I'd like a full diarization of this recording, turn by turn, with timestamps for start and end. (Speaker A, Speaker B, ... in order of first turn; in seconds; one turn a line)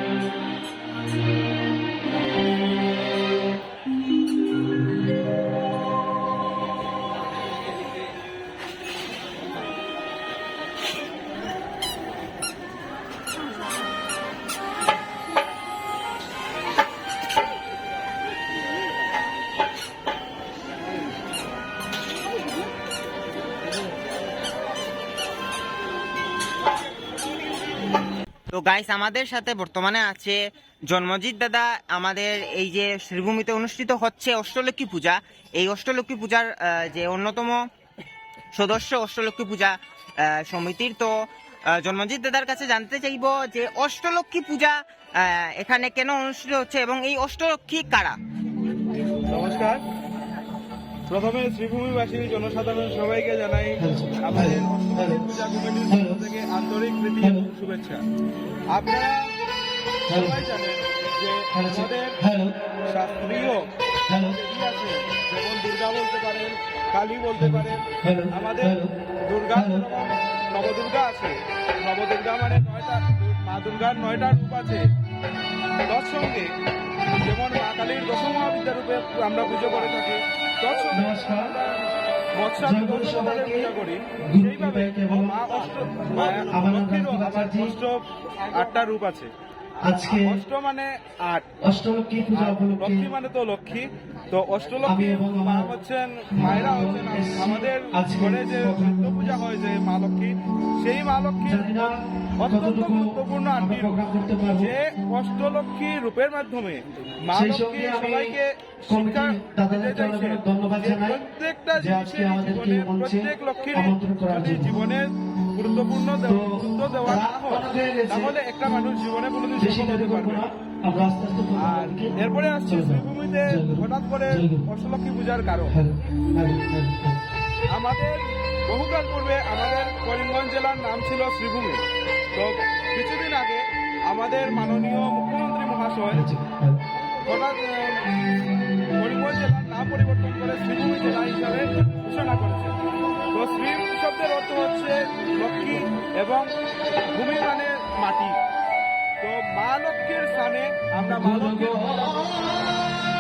Speaker A: 28.5-37.6
Speaker A: 38.5-41.2
Speaker A: 41.8-48.2
Speaker B: 49.3-49.8
Speaker B: 51.1-58.0
Speaker C: 53.8-55.2
Speaker C: 55.9-56.2
Speaker B: 58.7-59.3
Speaker B: 60.1-62.2
Speaker C: 60.1-60.4
Speaker C: 61.5-62.5
Speaker B: 62.9-74.9
Speaker C: 64.1-64.3
Speaker C: 68.0-68.9
Speaker C: 69.5-69.8
Speaker B: 75.9-76.5
Speaker B: 77.2-81.8
Speaker C: 80.9-81.6
Speaker B: 82.3-89.3
Speaker C: 82.6-83.7
Speaker C: 84.2-85.5
Speaker C: 86.3-87.7
Speaker C: 89.8-90.4
Speaker B: 90.1-91.5
Speaker C: 91.6-93.1
Speaker B: 92.3-104.0
Speaker C: 94.8-95.7
Speaker C: 96.3-99.2
Speaker C: 101.5-104.7
Speaker B: 104.6-120.5
Speaker C: 107.3-108.3
Speaker C: 108.9-111.2
Speaker C: 111.8-114.8
Speaker C: 116.3-118.3
Speaker C: 119.6-122.2
Speaker B: 121.6-125.8
Speaker C: 122.7-124.6
Speaker C: 125.7-127.2
Speaker B: 127.7-131.8
Speaker B: 132.3-136.2
Speaker C: 136.1-136.8
Speaker B: 137.2-138.1
Speaker B: 138.9-142.8
Speaker B: 143.3-146.5
Speaker B: 147.1-148.4
Speaker B: 149.2-152.6